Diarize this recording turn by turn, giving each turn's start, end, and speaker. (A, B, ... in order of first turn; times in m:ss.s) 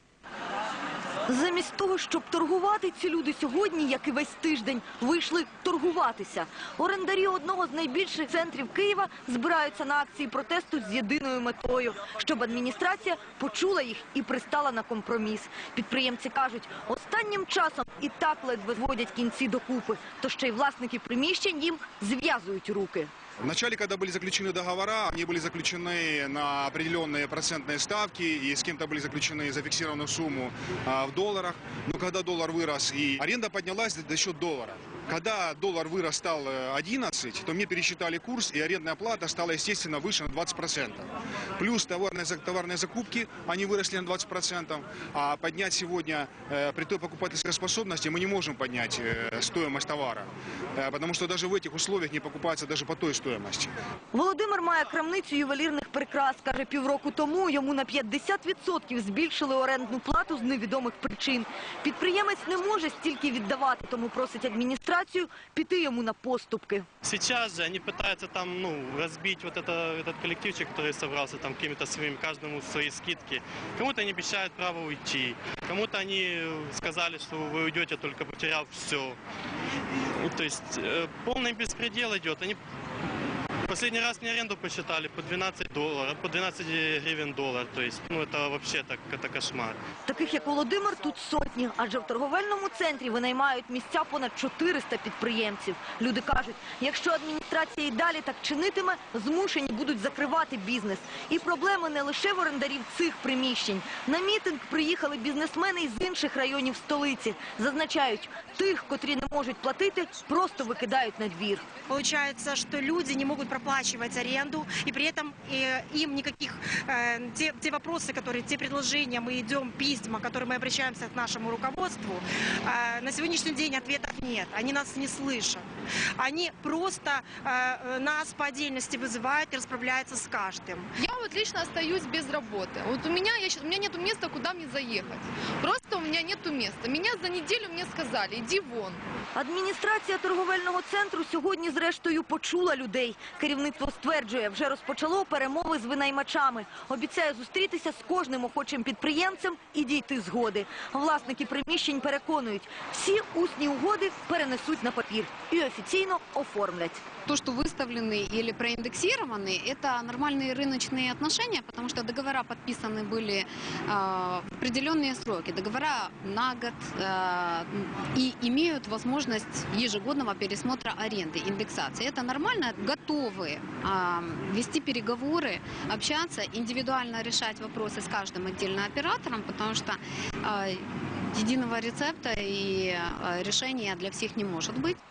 0:01.3-0:23.1 A
0:23.4-0:41.1 B
0:41.6-0:53.7 B
0:54.1-1:06.8 A
1:07.1-1:19.2 C
1:20.2-1:22.6 C
1:23.7-1:29.8 C
1:30.0-1:51.6 A
1:51.9-2:05.6 D
2:06.2-2:10.9 D
2:11.0-2:19.0 E
2:19.3-2:37.0 A
2:37.2-3:05.0 F